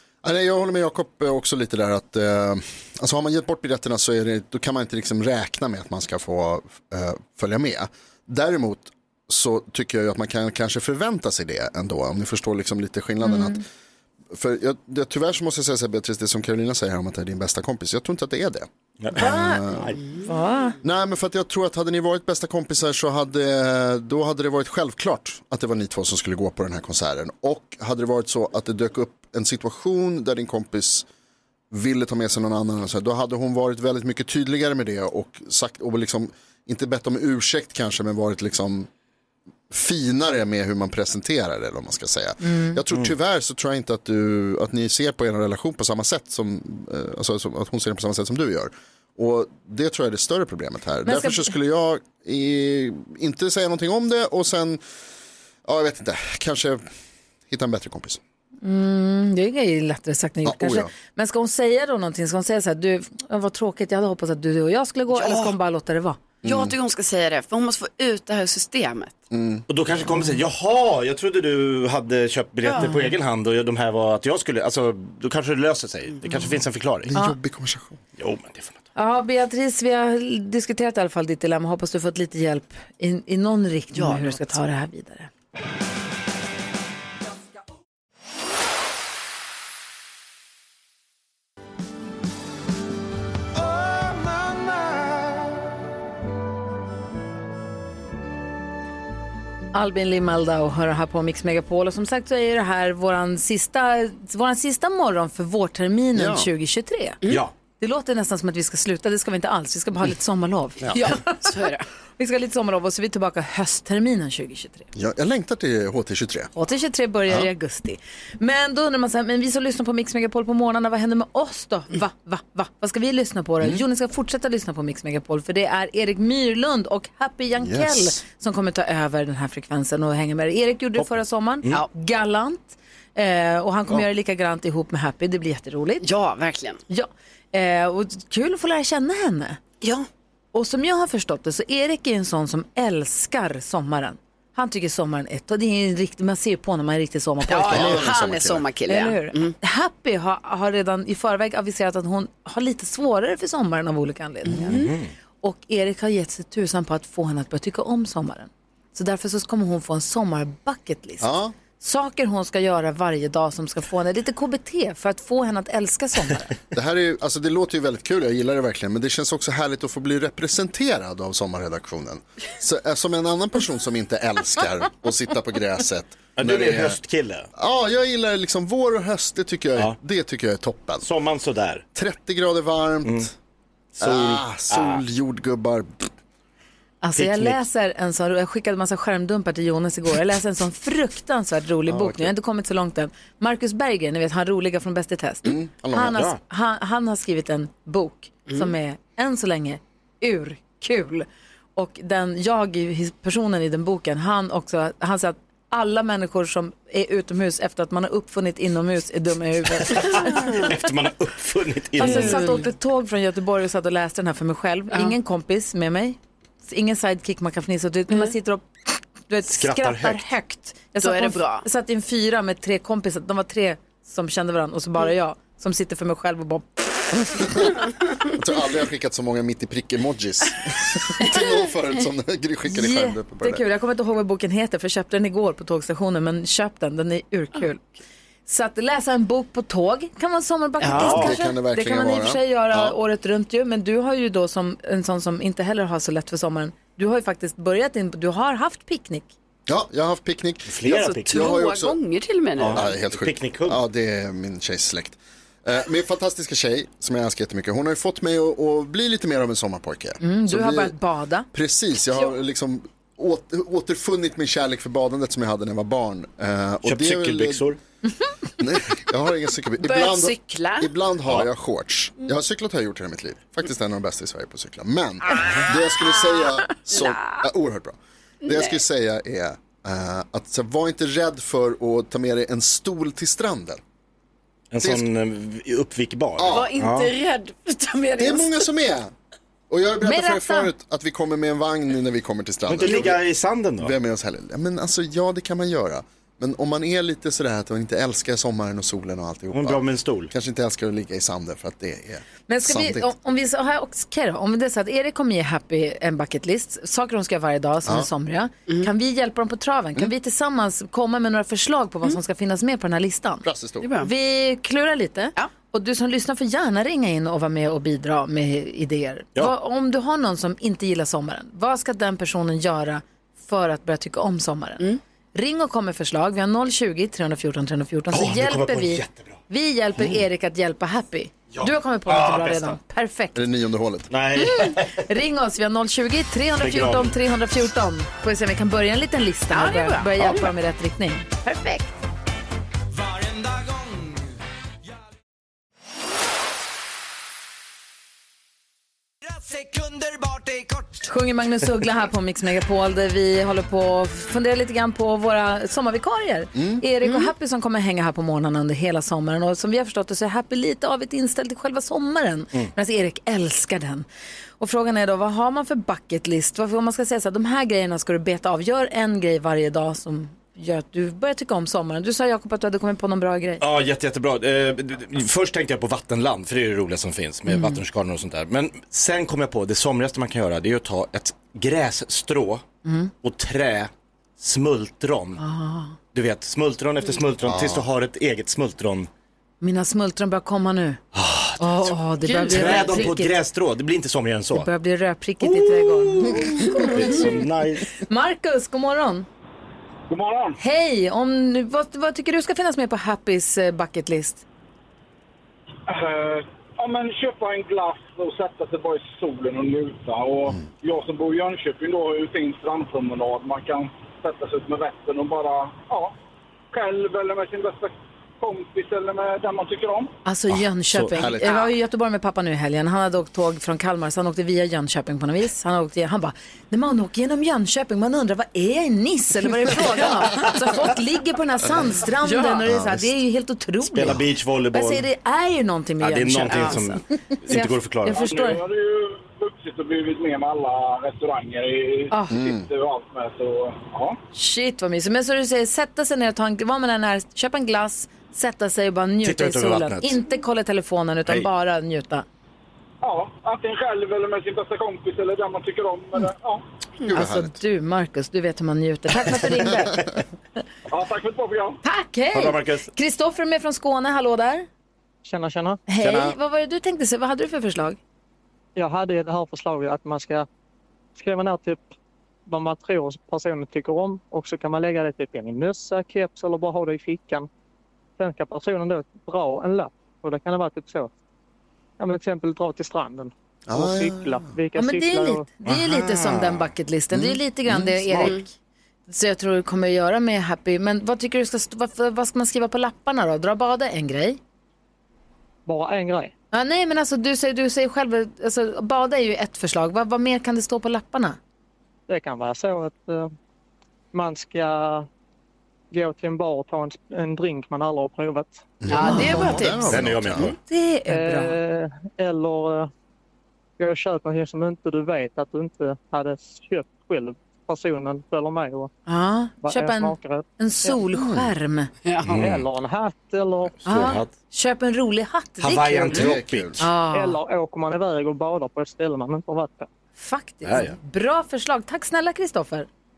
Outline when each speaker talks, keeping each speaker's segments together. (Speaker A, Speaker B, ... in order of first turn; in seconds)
Speaker A: 0.2-13.6, 14.3-19.9, 20.8-31.1, 31.7-38.9, 39.7-54.8, 55.6-56.8, 57.5-58.2, 60.4-60.9, 66.4-66.7, 69.3-69.6, 77.0-78.0, 106.1-106.5, 114.9-116.5, 127.6-128.2, 147.7-148.6, 161.2-161.5, 166.7-177.0, 177.5-181.1, 181.9-183.3, 184.0-186.1, 191.9-192.3, 195.4-196.2, 227.3-227.8, 228.3-233.6, 240.9-243.0, 249.7-250.7, 251.3-251.9, 252.7-260.9, 261.5-267.6, 268.6-283.8, 286.4-286.7, 288.2-289.1, 289.7-293.2, 293.8-303.1, 313.4-313.9, 333.3-334.1, 356.5-356.8, 387.4-387.9, 421.1-421.5, 432.6-433.1, 442.3-442.6, 457.1-457.6, 483.7-484.5, 487.1-488.3, 508.8-510.5, 521.1-521.5, 526.1-526.8
Speaker B: 13.2-13.6, 19.1-19.6, 20.2-20.8, 42.4-42.8, 51.0-51.5, 58.6-66.2, 72.8-73.1, 78.9-85.3, 99.7-107.2, 107.8-111.5, 112.2-114.9, 116.5-136.0, 136.9-139.6, 140.5-148.1, 148.9-154.8, 155.4-166.5, 187.0-210.7, 212.0-218.7, 219.3-226.7, 232.7-237.9, 238.5-249.3, 260.2-261.5, 290.0-290.7, 302.5-313.4, 314.0-333.4, 334.4-341.4, 351.0-364.0, 364.6-373.6, 377.5-377.8, 382.8-383.1, 385.4-385.9, 389.6-391.0, 391.6-393.3, 394.5-397.4, 397.9-399.3, 400.6-404.4, 420.2-434.2, 434.7-438.6, 442.1-442.4, 444.3-452.2, 457.1-460.0, 461.8-464.7, 465.9-468.0, 484.7-488.5, 489.1-494.4, 496.5-501.4, 509.0-509.8, 510.6-511.6, 519.0-521.9, 523.8-527.4, 530.1-532.9
Speaker C: 19.0-20.0, 69.7-77.1, 78.2-78.8, 154.7-155.1, 176.4-177.5, 181.0-181.8, 184.0-185.0, 187.2-187.6, 209.8-212.6, 219.5-220.2, 240.9-241.3, 250.7-251.6, 252.6-253.8, 266.8-267.8, 284.7-287.1, 292.7-293.9, 299.5-300.3, 328.1-329.4, 331.5-332.8, 334.1-335.0, 336.6-337.1, 373.6-382.6, 383.2-385.4, 386.1-389.1, 391.1-394.7, 395.4-397.9, 433.8-435.1, 436.0-438.3, 449.2-450.2, 459.3-459.6, 462.3-462.9, 466.0-466.3, 485.6-486.6, 509.9-510.6, 522.2-522.7, 523.8-524.3, 525.6-526.8, 530.6-531.0
Speaker D: 65.1-65.5, 66.4-69.2, 72.6-72.9, 83.9-84.5, 110.9-111.8, 136.0-136.8, 139.8-140.1, 147.5-149.5, 154.4-154.9, 212.0-212.6, 221.0-221.6, 240.8-241.1, 250.8-252.8, 269.8-270.9, 276.9-277.4, 278.4-278.8, 286.5-288.6, 313.8-314.1, 339.5-340.5, 341.5-341.8, 357.0-357.3, 392.3-393.1, 432.2-432.6, 436.5-436.8, 508.9-509.9, 522.0-522.4
Speaker E: 400.1-400.6, 405.9-416.1, 416.7-420.1, 438.2-444.2, 453.0-456.6, 460.9-461.8
Speaker F: 465.2-465.8, 468.8-470.5, 471.1-471.9, 472.5-477.5, 478.2-481.1, 482.0-485.5, 495.6-496.3, 502.1-503.3, 504.1-505.1, 505.9-508.6, 511.1-512.9, 513.8-518.9, 519.6-521.0, 522.4-523.7, 527.1-529.9